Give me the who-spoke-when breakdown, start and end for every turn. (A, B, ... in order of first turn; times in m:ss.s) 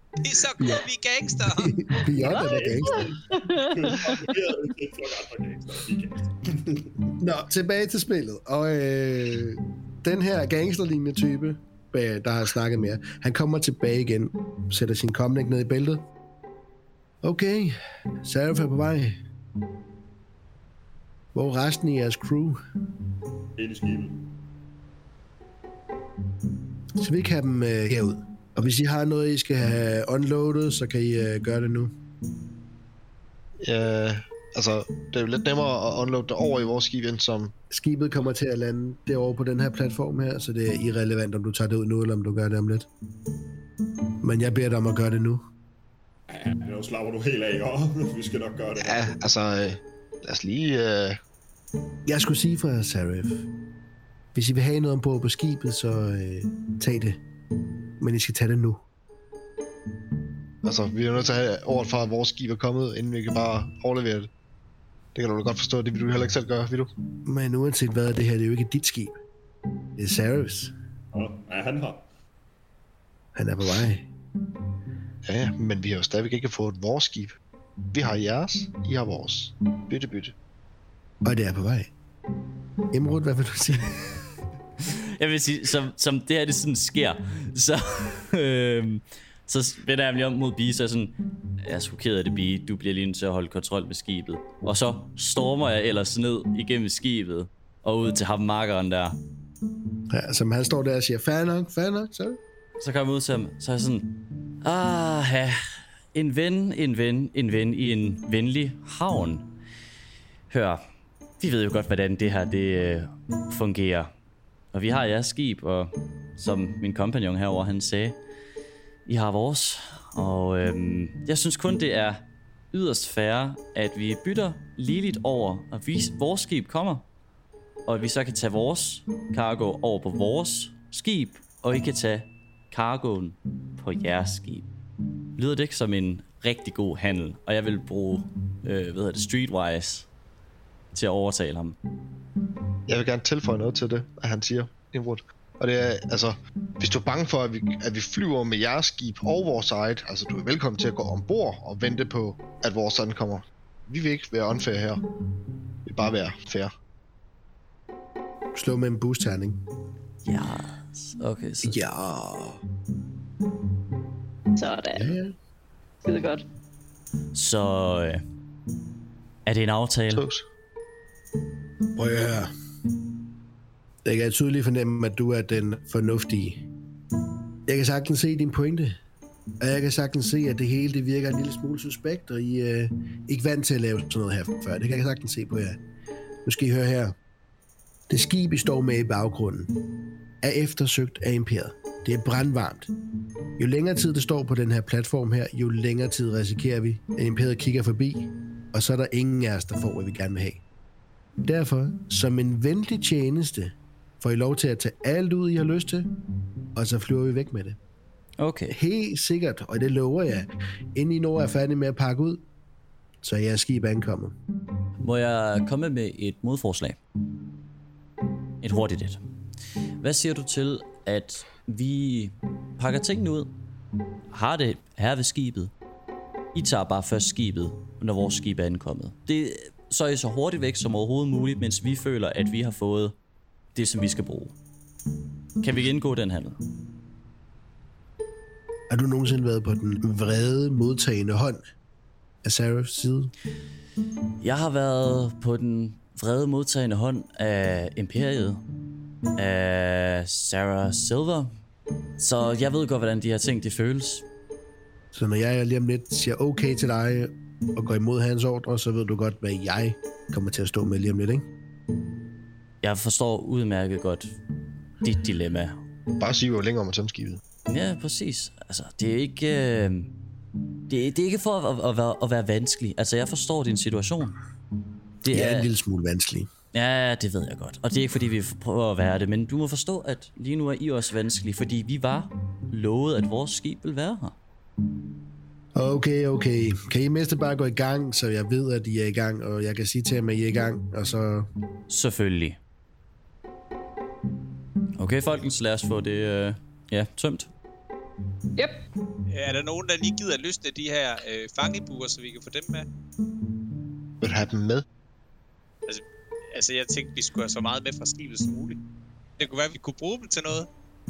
0:00.2-0:01.8 A
0:01.5-0:03.1 B
0:02.2-0:07.0 C
0:02.2-0:04.3 D
0:07.2-0:16.0 B
0:17.2-0:19.2 B
0:21.4-0:22.6 B
0:23.6-0:24.2 C
0:27.0-0:31.9 B
0:33.6-0:37.5 E
0:37.7-0:42.9 B
0:44.2-0:45.4 B
0:46.3-0:49.1 C
0:48.8-0:51.2 E
0:52.1-0:53.4 B
0:54.3-0:57.2 B
0:58.0-0:58.8 B
1:00.6-1:04.3 E
1:05.2-1:06.9 E
1:07.3-1:09.2 B
1:10.0-1:10.7 B
1:11.1-1:12.1 C
1:13.4-1:14.1 B
1:15.2-1:17.4 E
1:17.9-1:20.3 E
1:21.2-1:21.9 B
1:22.9-1:24.1 B
1:24.9-1:39.2 F
1:40.1-1:42.4 B
1:42.8-1:44.1 F
1:44.6-1:45.6 F
1:46.1-1:49.5 F
1:50.5-1:50.8 F
1:51.4-1:54.1 F
1:54.7-1:58.2 F
1:59.1-2:07.0 F
2:07.9-2:14.7 F
2:15.4-2:20.1 F
2:20.9-2:21.8 F
2:22.9-2:35.0 E
2:35.9-2:36.7 E
2:38.6-2:39.6 B
2:40.2-2:41.8 F
2:41.6-2:42.6 B
2:44.6-2:45.1 D
2:44.9-2:45.3 B
2:46.0-2:46.4 D
2:47.3-2:48.2 F
2:49.5-2:50.2 F
2:50.1-2:50.4 E
2:52.0-2:52.5 B
2:54.0-2:56.6 B
2:57.7-2:59.0 B
2:59.6-3:05.8 B
3:06.4-3:07.2 B
3:08.1-3:09.7 B
3:10.4-3:12.9 B
3:13.6-3:20.6 B
3:21.4-3:26.1 B
3:26.8-3:27.8 B
3:28.4-3:28.8 F
3:28.7-3:32.4 B
3:33.2-3:34.4 B
3:35.0-3:37.0 F
3:38.6-3:39.2 F
3:40.0-3:43.5 F
3:44.3-3:45.7 F
3:46.5-3:53.2 F
3:53.8-3:54.5 F
3:55.6-3:56.6 F
3:58.9-4:01.6 B
4:02.4-4:03.3 B
4:04.4-4:08.6 F
4:09.4-4:11.5 F
4:12.2-4:14.2 F
4:15.1-4:21.5 B
4:22.8-4:24.4 F
4:25.0-4:25.8 F
4:26.2-4:27.4 E
4:27.7-4:30.1 F
4:30.9-4:34.4 F
4:35.2-4:35.7 F
4:35.3-4:36.5 B
4:36.7-4:44.4 F
4:45.8-4:51.5 B
4:51.9-4:52.6 F
4:55.0-4:57.5 F
4:58.6-4:58.8 D
4:59.3-5:02.9 A
5:04.2-5:04.8 E
5:05.9-5:08.8 A
5:09.4-5:10.7 A